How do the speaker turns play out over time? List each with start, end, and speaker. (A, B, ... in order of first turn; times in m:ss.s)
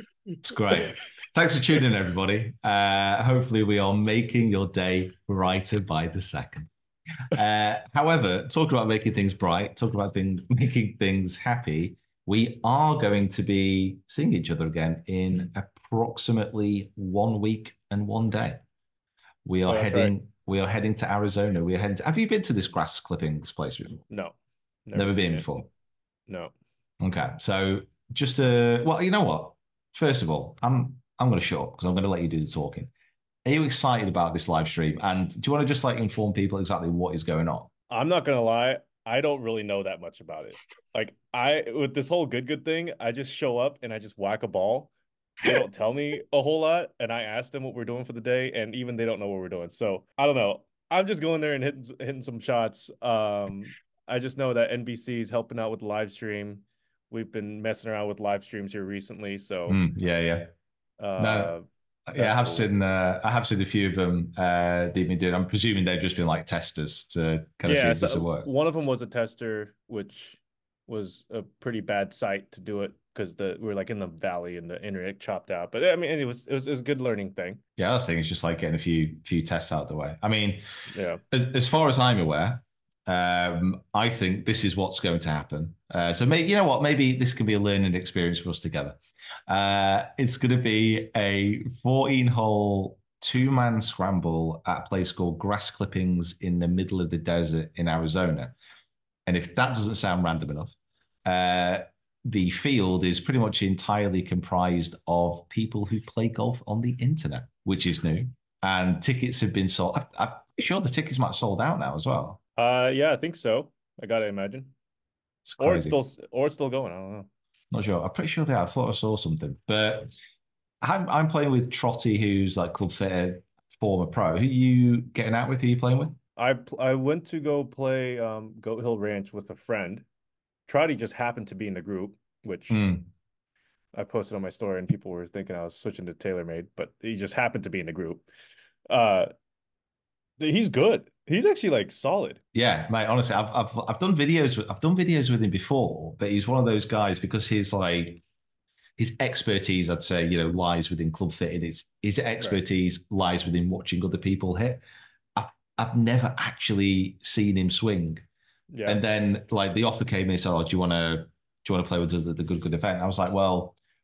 0:00.4-0:06.7 A
0:07.3-0:18.6 A
0:19.4-0:24.0 A
0:19.7-0:20.1 B
0:24.1-0:24.3 B
0:24.8-0:25.6 B
0:24.9-0:25.7 A
0:26.3-0:26.5 B
0:27.0-0:32.9 A
0:33.4-0:37.7 A
0:37.9-0:44.9 B
0:45.4-0:59.8 B
0:59.7-1:00.5 A
1:01.0-1:02.7 B
1:01.2-1:01.5 A
1:02.0-1:08.5 A
1:07.6-1:17.6 B
1:17.8-1:20.6 A
1:20.9-1:21.2 B
1:21.3-1:38.5 A
1:39.2-1:52.4 A
1:52.6-1:54.7 B
1:55.4-1:56.0 A
1:55.6-1:57.3 B
1:57.7-2:00.1 A
2:00.8-2:06.2 A
2:06.4-2:10.0 B
2:10.7-2:12.8 B
2:12.7-2:13.1 A
2:13.9-2:18.2 B
2:18.9-2:19.3 B
2:20.4-2:22.4 B
2:22.5-2:28.2 A
2:29.0-2:34.8 A
2:35.4-2:38.2 A
2:38.7-2:39.0 B
2:38.8-2:43.8 A